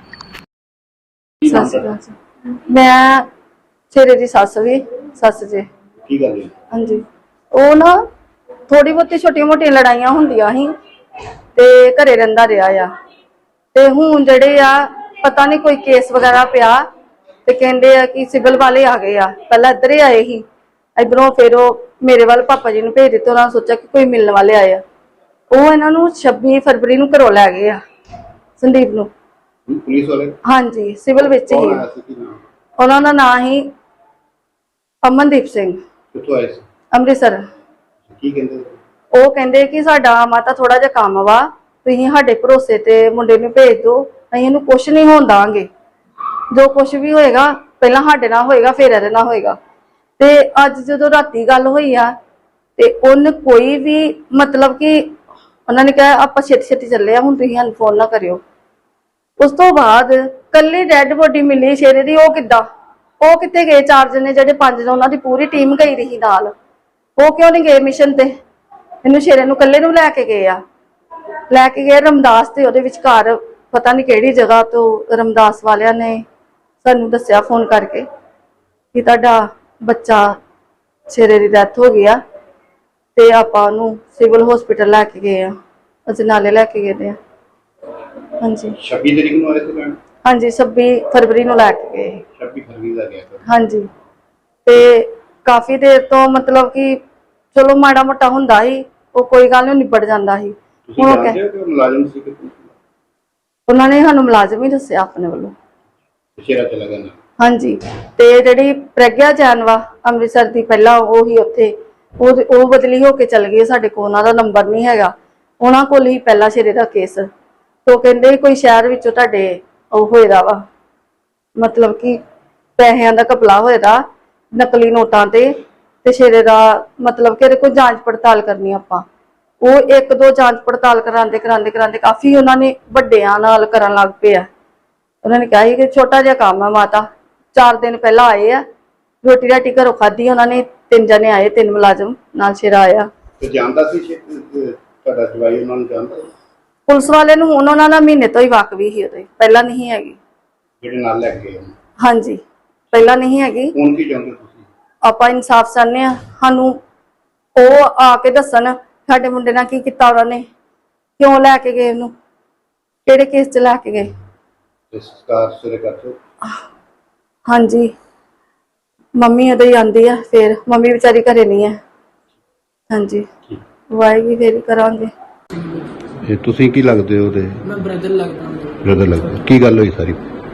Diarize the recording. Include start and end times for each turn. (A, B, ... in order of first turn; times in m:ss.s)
0:01.4-0:03.2 A
0:03.9-0:05.6 A
0:06.0-0:06.5 B
0:06.7-0:07.0 A
0:07.5-0:08.0 A
0:08.7-0:10.7 A
0:11.5-0:12.9 A
0:13.7-0:16.8 A
0:17.4-0:20.4 A
0:21.0-0:24.8 A
0:25.5-0:27.8 A
0:28.6-0:29.1 A
0:29.7-0:30.4 B
0:30.4-0:31.8 A
0:31.3-0:32.4 B
0:32.8-0:33.7 A
0:35.0-0:35.8 A
0:36.1-0:36.6 B
0:36.9-0:37.4 A
0:38.1-0:38.7 B
0:39.1-0:45.7 A
0:46.5-0:49.6 A
0:50.2-0:52.1 A
0:52.8-0:55.1 A
0:55.7-0:58.4 A
0:59.4-1:02.6 A
1:03.2-1:06.5 A
1:07.2-1:08.3 A
1:09.0-1:10.6 A
1:11.5-1:16.2 A
1:16.8-1:18.0 A
1:18.9-1:20.3 A
1:21.1-1:22.2 A
1:23.2-1:25.5 A
1:26.1-1:27.2 A
1:28.4-1:28.8 A
1:28.8-1:30.0 B
1:30.2-1:32.2 A
1:32.4-1:33.4 B
1:33.4-1:33.9 A
1:34.6-1:37.0 A
1:37.5-1:41.4 A
1:40.9-1:42.7 B
1:43.7-1:45.5 A
1:46.4-1:47.2 B
1:47.4-1:57.3 A
1:57.8-2:00.6 A
2:01.6-2:02.2 A
2:02.8-2:05.5 A
2:06.0-2:09.0 A
2:09.6-2:14.5 A
2:15.2-2:18.6 A
2:19.2-2:23.1 A
2:23.4-2:26.3 B
2:26.9-2:30.2 A
2:30.8-2:31.7 B
2:32.0-2:33.7 A
2:33.7-2:34.6 B
2:35.0-2:36.8 A
2:37.5-2:40.4 A
2:41.2-2:42.1 A
2:43.0-2:44.1 A
2:44.9-2:46.2 B
2:47.5-2:47.9 A
2:49.2-2:51.8 A
2:52.9-2:53.3 A
2:53.9-2:55.1 A
2:55.5-2:55.9 C
2:56.2-2:57.6 B
2:57.6-2:59.4 C
2:58.8-3:00.2 B